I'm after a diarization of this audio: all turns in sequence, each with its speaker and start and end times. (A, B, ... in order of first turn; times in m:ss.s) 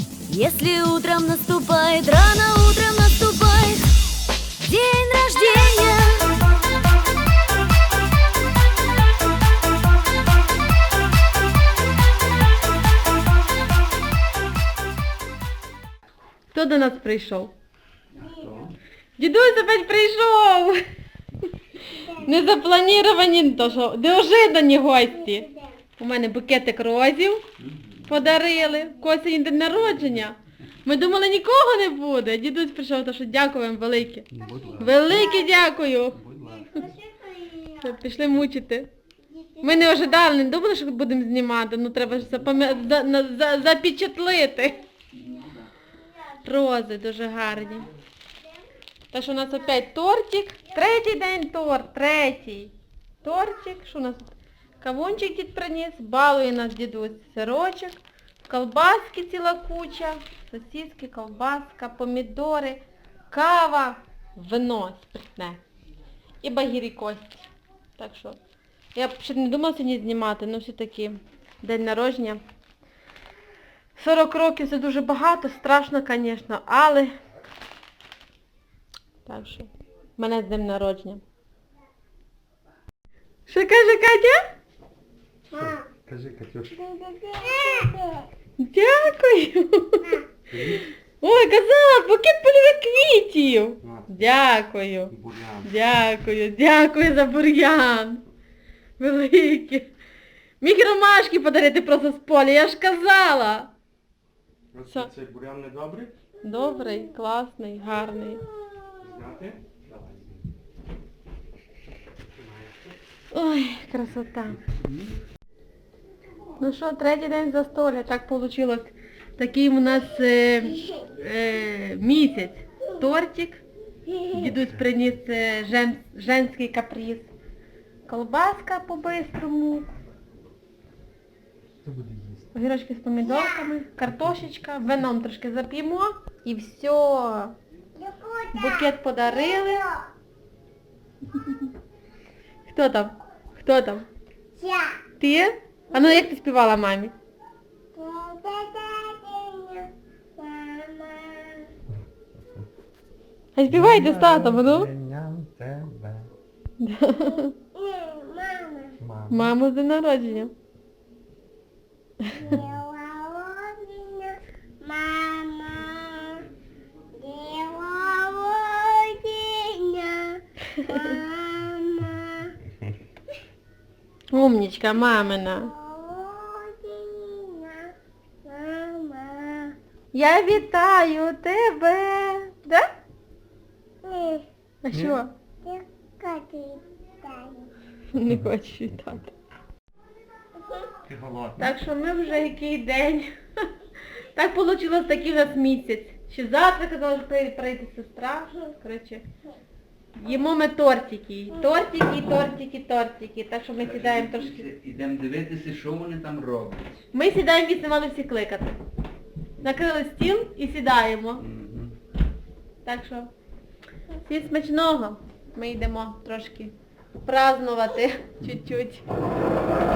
0:00.3-0:03.9 A
0:04.6-0:06.3 A
0:16.5-0:17.5 B
0:18.2-0:18.8 C
0:19.2-0:20.8 B
0:21.9-0:27.4 B
0:27.6-0:28.1 C
0:28.1-0:36.2 B
0:34.3-0:35.5 C
0:35.1-0:35.7 D
0:36.1-0:36.7 C
0:36.4-0:37.9 D
0:37.8-0:38.9 B
0:39.3-0:40.2 D
0:39.6-0:44.8 B
0:42.2-0:42.5 C
0:45.1-0:45.7 C
0:46.4-0:47.9 B
0:49.1-1:05.6 B
1:06.4-1:08.4 B
1:09.0-1:12.4 B
1:14.0-1:17.1 B
1:19.2-1:21.2 B
1:23.5-1:24.4 B
1:25.5-1:25.8 D
1:25.6-1:26.7 E
1:26.7-1:28.3 D
1:28.6-1:30.2 B
1:30.5-1:30.9 E
1:31.2-1:38.2 B
1:33.8-1:34.1 E
1:35.1-1:35.7 E
1:39.0-1:39.9 B
1:40.6-1:43.7 B
1:44.7-1:46.1 E
1:46.4-1:48.5 B
1:49.0-1:50.4 E
1:52.4-1:52.9 E
1:53.3-1:54.6 B
1:54.7-1:55.2 C
1:56.6-2:03.6 B
2:04.3-2:07.3 B
2:08.1-2:09.9 B
2:11.8-2:12.4 E
2:12.5-2:17.6 B
2:18.0-2:20.1 D
2:18.5-2:19.9 B
2:22.7-2:24.1 B
2:24.6-2:25.0 D
2:25.2-2:27.1 B
2:27.9-2:31.7 D
2:33.6-2:34.9 B
2:33.7-2:36.3 E
2:36.8-2:37.6 B
2:37.7-2:39.0 D
2:39.0-2:39.5 E
2:39.3-2:40.5 B
2:42.3-2:46.5 D
2:47.2-2:52.6 D
2:54.3-2:55.7 B
2:55.7-2:59.8 D
3:00.1-3:02.9 B
3:04.0-3:04.5 D
3:04.8-3:05.3 B
3:04.9-3:05.2 E
3:05.6-3:07.7 D
3:08.1-3:09.3 B
3:11.1-3:11.7 E
3:11.6-3:13.3 B
3:14.4-3:19.2 B
3:20.2-3:24.7 B
3:23.8-3:27.0 C
3:27.1-3:28.8 B
3:29.6-3:31.4 B
3:31.4-3:32.0 C
3:32.8-3:33.3 B
3:34.2-3:39.1 B